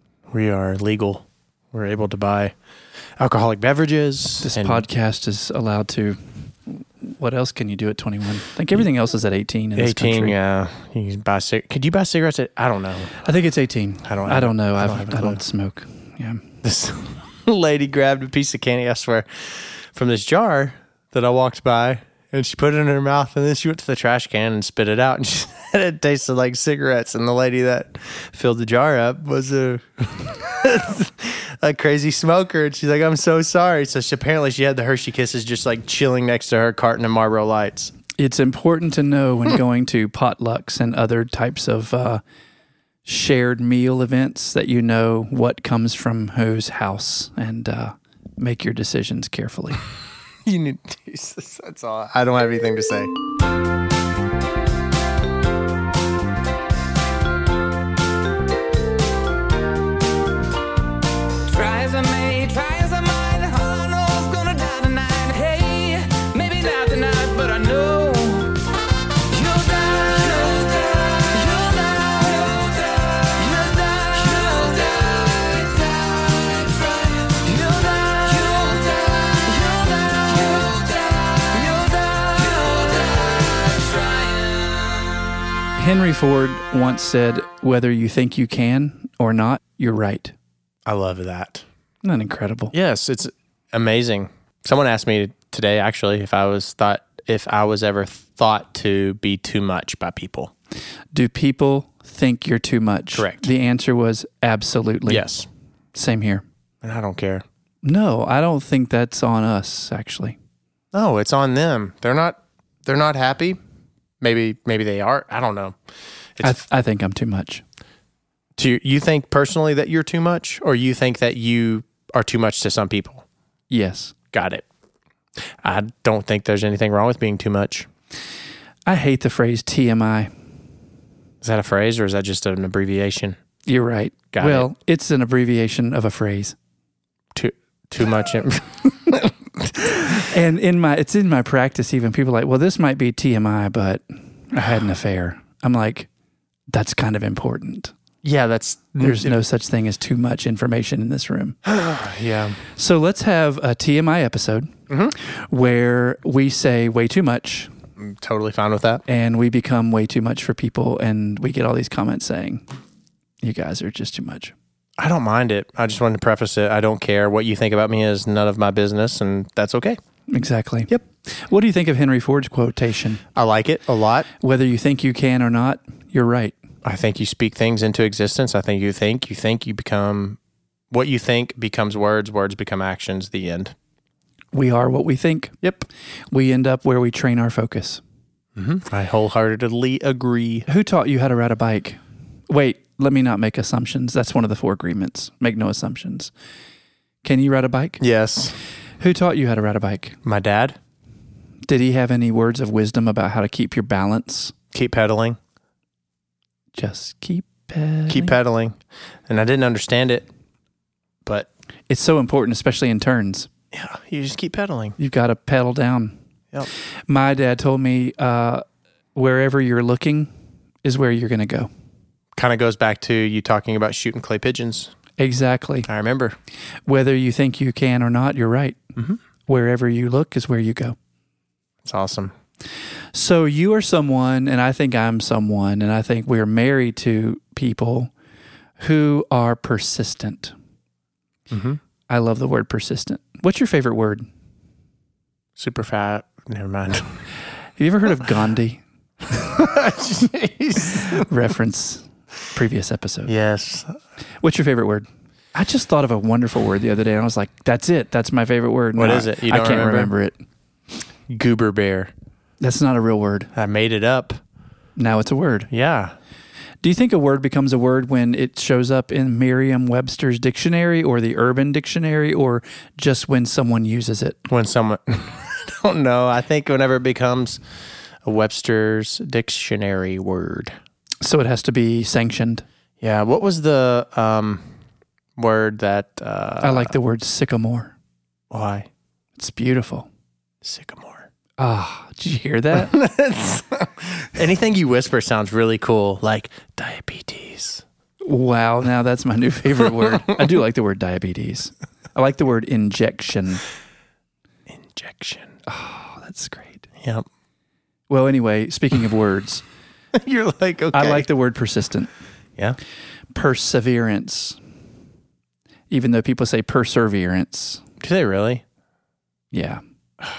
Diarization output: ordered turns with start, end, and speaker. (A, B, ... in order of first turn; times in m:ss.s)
0:00.3-0:02.6 A
0:03.2-0:04.8 A
0:04.4-0:10.4 B
0:09.8-0:13.1 A
0:13.2-0:16.4 B
0:14.1-0:15.4 A
0:16.6-0:37.9 A
0:38.2-0:42.2 B
0:43.0-0:49.8 B
0:50.4-0:53.1 A
1:01.5-1:08.6 C
1:09.3-1:24.9 C
1:25.8-1:30.4 B
1:30.9-1:31.6 A
1:32.0-1:32.7 B
1:32.7-1:40.5 A
1:41.1-1:45.3 B
1:43.2-1:43.5 A
1:45.1-1:45.5 A
1:45.9-1:46.4 B
1:46.8-1:47.4 A
1:47.8-1:50.4 B
1:50.9-1:53.6 A
1:54.2-1:55.8 A
1:56.4-1:57.6 B
1:58.6-2:03.2 A
2:03.7-2:04.1 B
2:04.3-2:04.6 A
2:05.6-2:07.9 A
2:08.9-2:10.3 B
2:11.4-2:13.4 A
2:13.7-2:16.6 B
2:14.3-2:14.7 A
2:17.3-2:19.4 A
2:19.8-2:26.1 B
2:26.7-2:27.9 B
2:28.2-2:29.4 A
2:29.0-2:31.6 B
2:31.6-2:32.6 A
2:32.7-2:37.7 B
2:34.9-2:35.2 A
2:38.0-2:39.0 A
2:39.1-2:42.6 B
2:43.4-2:44.6 B
2:45.0-2:50.0 A
2:50.3-2:53.2 B
2:53.4-2:54.3 A
2:54.4-2:56.6 B
2:56.8-3:00.4 A
3:00.9-3:03.8 A
3:04.5-3:08.0 B
3:08.6-3:10.7 A
3:10.7-3:16.3 B
3:17.2-3:18.0 B
3:18.0-3:18.6 A
3:19.0-3:20.2 B
3:20.2-3:20.8 A
3:21.7-3:24.6 B
3:24.7-3:25.4 A
3:26.8-3:28.4 B
3:28.1-3:30.3 A
3:31.9-3:33.5 B
3:33.7-3:35.0 A
3:35.0-3:36.2 B
3:37.1-3:38.6 B
3:39.2-3:40.3 B
3:40.8-3:41.7 B
3:42.4-3:44.9 A
3:45.2-3:45.9 B
3:45.9-3:46.4 A
3:46.9-3:48.9 B
3:49.5-3:51.0 B
3:51.8-3:52.3 A
3:53.1-3:58.1 B
3:58.8-4:00.5 B
4:01.5-4:01.8 A
4:02.1-4:04.3 B
4:05.6-4:07.2 A
4:07.8-4:08.8 B
4:09.3-4:09.7 B
4:09.3-4:11.3 A
4:10.9-4:13.3 B
4:13.3-4:14.0 A
4:14.4-4:20.4 B
4:19.0-4:20.1 A
4:21.3-4:22.1 A
4:22.6-4:23.5 B
4:23.6-4:24.4 A
4:25.0-4:25.7 B
4:25.7-4:26.2 A
4:26.8-4:34.5 B
4:34.5-4:37.6 A
4:38.2-4:40.7 A
4:41.2-4:42.6 B
4:43.0-4:44.7 A
4:45.4-4:46.9 A
4:46.6-4:47.9 B
4:48.5-4:48.9 A
4:49.4-4:50.1 B
4:50.6-4:51.3 A
4:51.6-4:53.0 B
4:52.7-4:57.8 A
4:58.2-5:03.6 B
5:00.0-5:00.4 A
5:04.7-5:05.5 A
5:05.7-5:06.9 B
5:07.0-5:07.3 A
5:08.1-5:09.6 B
5:10.1-5:11.3 A
5:10.9-5:12.1 B
5:13.3-5:14.6 B
5:15.9-5:17.8 B
5:18.0-5:18.6 A
5:19.5-5:19.8 B